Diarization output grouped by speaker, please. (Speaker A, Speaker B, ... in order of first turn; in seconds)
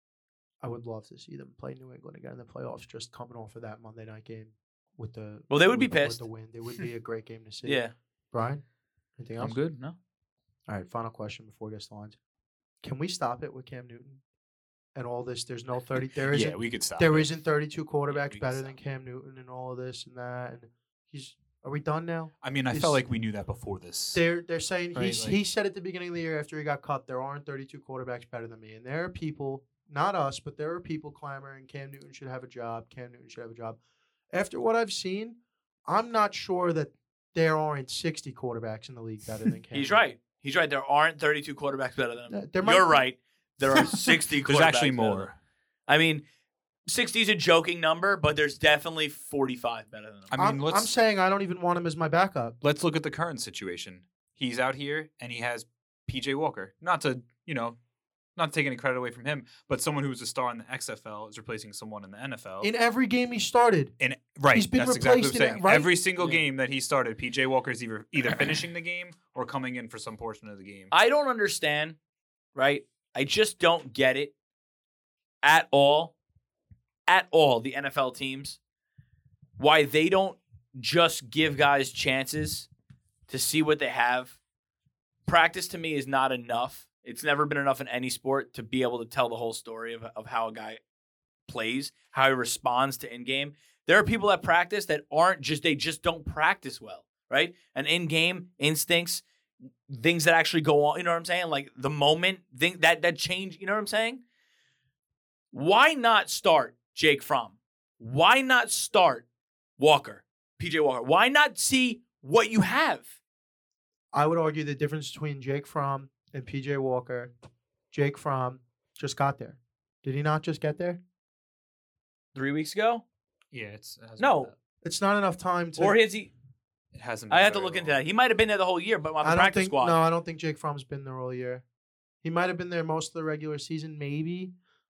Speaker A: 0.6-8.6, 9.2-9.6, 10.7-12.2, 12.8-14.2, 14.9-23.0, 24.1-33.8, 34.3-40.0, 42.3-43.0, 50.4-52.5, 62.6-63.9, 64.5-65.9, 114.1-117.3, 117.9-121.0, 124.8-126.0, 129.2-131.6, 132.2-134.5
Speaker B: 5.5-6.2, 7.6-7.9, 18.1-18.8, 39.7-45.3, 45.9-46.2, 46.9-50.3, 70.9-72.0, 72.5-74.3, 75.4-76.2, 77.1-78.6, 79.6-82.7, 83.3-84.4, 85.2-90.8, 91.5-99.2, 99.9-104.2, 105.5-109.2, 109.8-113.1, 122.3-123.0, 124.2-124.5, 125.8-126.3, 127.3-130.0
Speaker C: 9.4-9.9, 16.2-17.3, 22.4-24.2, 24.9-25.4, 43.9-45.4, 50.3-50.9, 52.6-57.8, 58.4-62.7, 64.0-70.9, 123.5-124.5, 126.9-128.0